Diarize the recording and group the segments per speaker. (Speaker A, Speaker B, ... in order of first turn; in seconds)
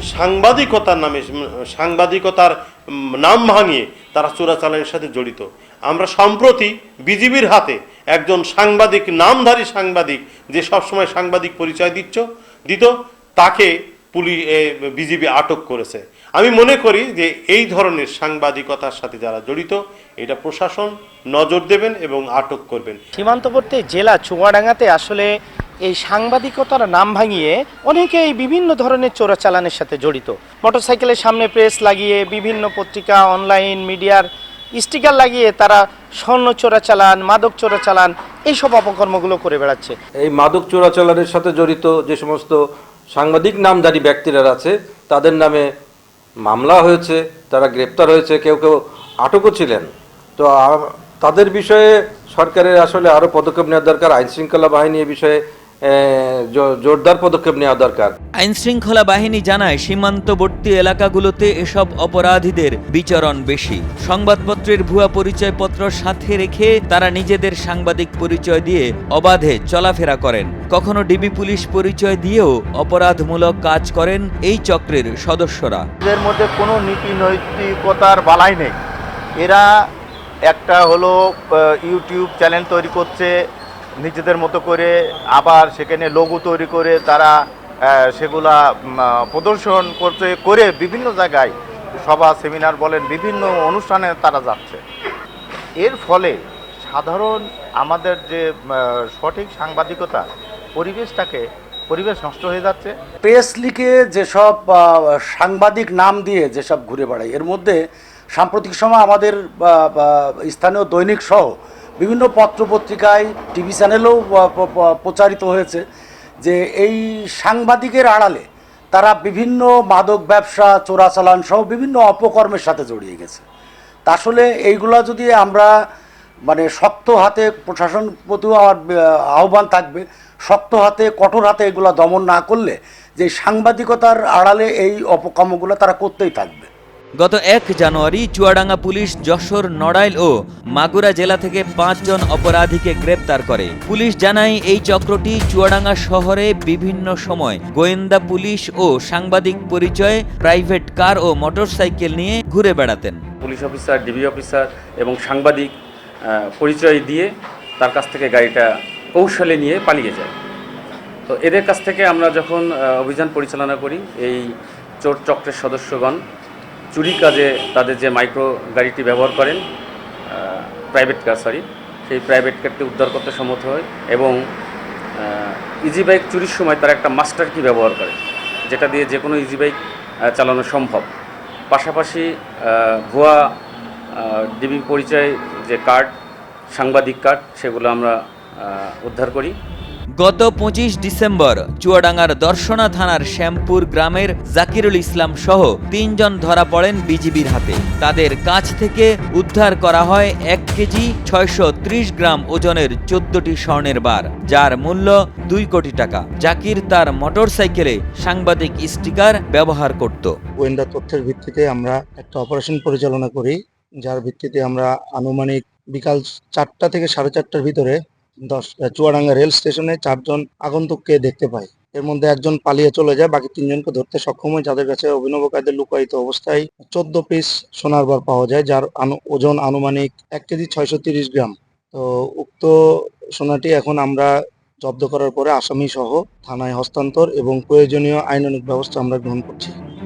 Speaker A: 0.1-2.5, 3.2-23.0
Speaker B: 23.2-25.3, 25.8-40.0
Speaker C: 40.2-45.7, 46.4-58.1
Speaker D: 58.4-75.8, 137.2-153.2, 190.2-210.4
Speaker E: 76.0-78.8, 79.4-79.7, 80.5-83.3, 84.0-87.3, 88.0-94.8, 95.8-102.9
Speaker F: 103.2-107.8, 108.3-115.8, 116.4-123.4, 124.0-125.7, 126.5-128.8, 129.3-136.7
Speaker G: 153.4-155.7, 156.3-157.3, 157.8-160.3, 161.3-164.5, 165.0-166.2, 166.9-169.6, 170.3-174.4, 175.2-178.2, 178.7-179.8, 180.3-181.1, 181.7-183.4, 184.2-186.1, 186.7-189.5
Speaker H: 210.6-232.7, 233.4-234.3, 234.8-239.7